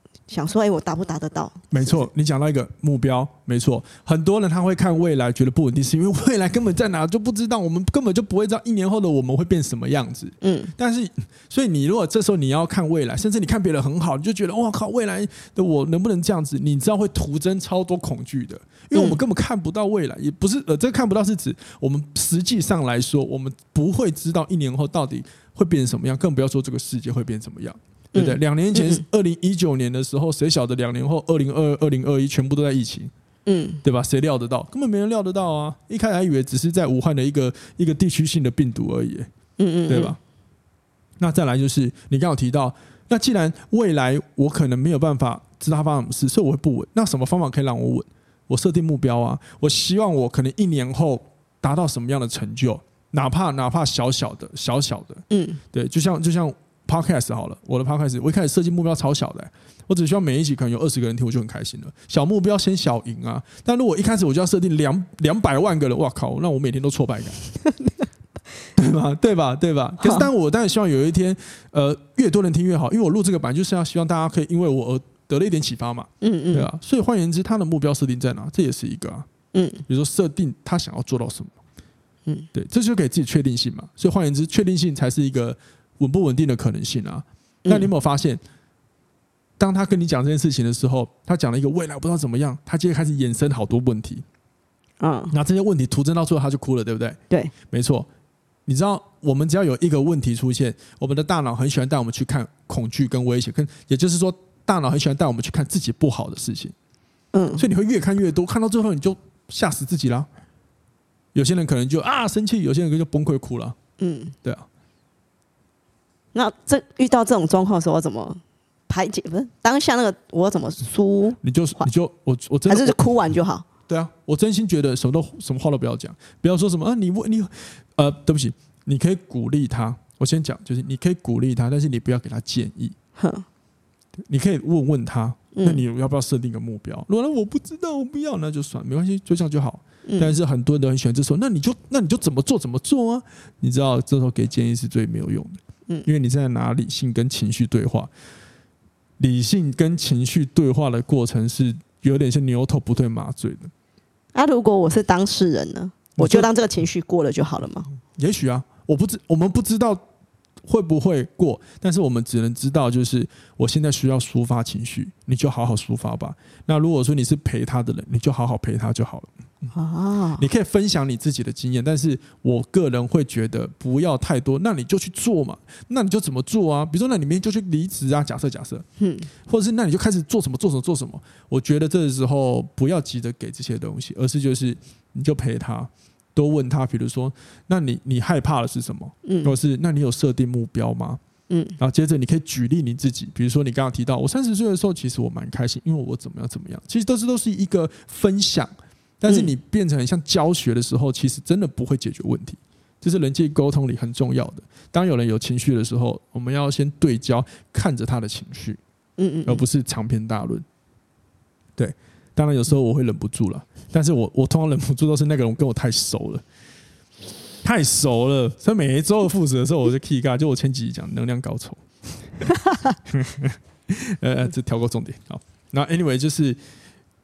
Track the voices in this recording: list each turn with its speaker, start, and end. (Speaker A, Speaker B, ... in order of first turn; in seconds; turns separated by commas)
Speaker A: 0.3-2.1, Speaker B: 1.7-33.1, Speaker A: 10.4-10.7, Speaker A: 18.9-19.2, Speaker A: 28.1-29.0, Speaker A: 33.5-33.8, Speaker B: 33.8-39.3, Speaker A: 39.6-40.2, Speaker B: 39.9-40.2, Speaker B: 41.2-67.4, Speaker A: 55.3-55.6, Speaker B: 68.7-79.3, Speaker A: 70.0-70.3, Speaker A: 76.2-76.7, Speaker A: 79.5-79.8, Speaker B: 79.9-81.6, Speaker B: 82.5-88.4, Speaker B: 89.6-94.2, Speaker A: 95.0-95.3, Speaker B: 95.3-97.2, Speaker B: 97.7-98.1, Speaker B: 98.7-106.7, Speaker A: 107.3-107.6, Speaker B: 107.5-110.3, Speaker B: 111.3-113.8, Speaker A: 114.0-114.3, Speaker A: 116.3-121.9, Speaker B: 121.4-123.0, Speaker A: 122.7-123.7, Speaker B: 123.9-132.9, Speaker A: 133.2-133.4, Speaker B: 134.3-148.1, Speaker A: 135.5-135.8, Speaker A: 140.1-140.3, Speaker B: 149.2-153.7, Speaker A: 154.3-157.9, Speaker B: 156.2-156.5, Speaker B: 158.2-160.0, Speaker B: 160.6-169.7, Speaker A: 169.7-170.4, Speaker B: 170.4-178.8, Speaker A: 179.0-179.3, Speaker B: 179.5-191.2, Speaker A: 189.2-189.5, Speaker A: 191.5-191.8, Speaker B: 191.8-208.8, Speaker A: 209.2-209.6, Speaker B: 209.4-210.6, Speaker B: 211.8-216.4, Speaker B: 217.6-221.8, Speaker B: 223.1-226.6